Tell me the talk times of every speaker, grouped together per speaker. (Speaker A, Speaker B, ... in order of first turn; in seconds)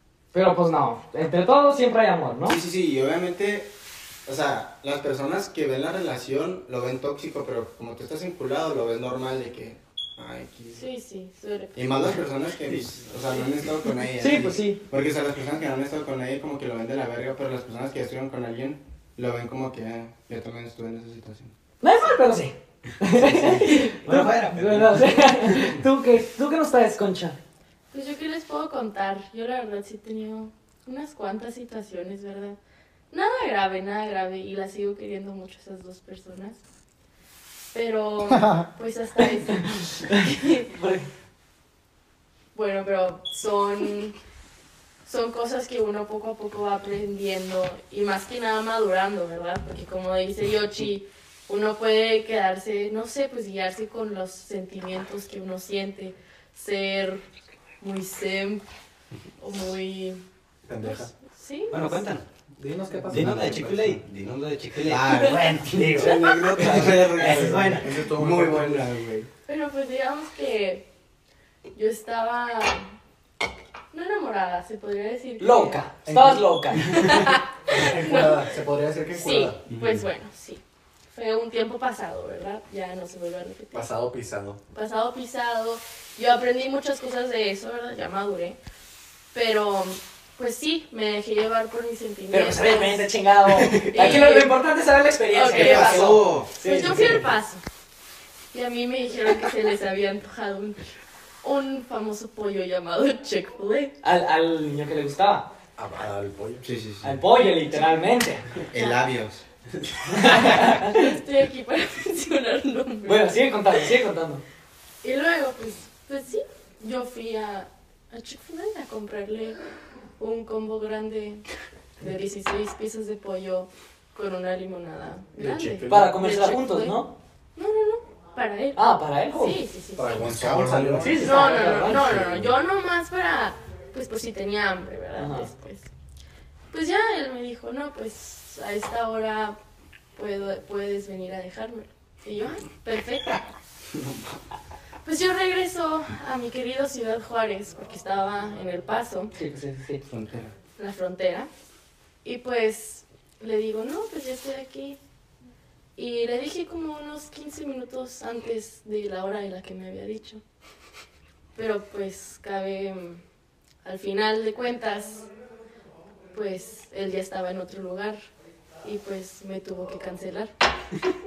Speaker A: 0.3-2.6, 14.2-14.8, 21.8-27.4, 40.0-41.0, 75.4-77.2, 92.3-97.2, 104.0-105.5, 107.0-108.4, 110.1-111.1, 113.0-114.4, 125.9-127.1, 128.7-129.6, 131.0-132.1, 135.2-135.5, 149.3-150.0
Speaker B: 2.5-3.7, 4.2-10.8, 11.7-21.5, 23.1-23.7, 63.1-63.5, 64.8-69.3, 95.5-97.0, 106.6-107.2, 108.7-109.4, 130.2-131.2, 150.1-150.5
Speaker C: 10.8-12.0, 27.9-32.6, 33.1-36.6, 37.7-40.7, 42.5-44.1, 45.0-57.2, 57.8-58.6, 59.4-60.2, 60.8-62.1, 69.5-70.9, 71.7-72.9, 73.9-75.8, 76.8-78.4, 79.1-83.8, 84.7-88.6, 89.3-93.1, 93.8-94.5, 95.3-97.6, 98.5-100.9, 101.4-103.9, 110.5-113.3, 115.0-119.6, 120.2-121.5, 122.0-127.0, 127.5-130.3, 131.2-135.9, 136.7-139.6, 140.1-143.4, 145.0-149.3, 150.8-151.5, 152.2-155.0, 155.9-160.4, 161.5-163.2, 163.8-165.3, 166.3-168.2, 168.8-170.5
Speaker D: 23.8-25.8, 61.7-62.2, 63.1-68.1, 79.7-80.0
Speaker E: 60.6-61.1, 62.6-64.0, 65.7-68.9, 76.0-77.0, 77.7-79.6, 83.7-84.6, 105.8-106.6, 125.3-126.2, 129.9-132.5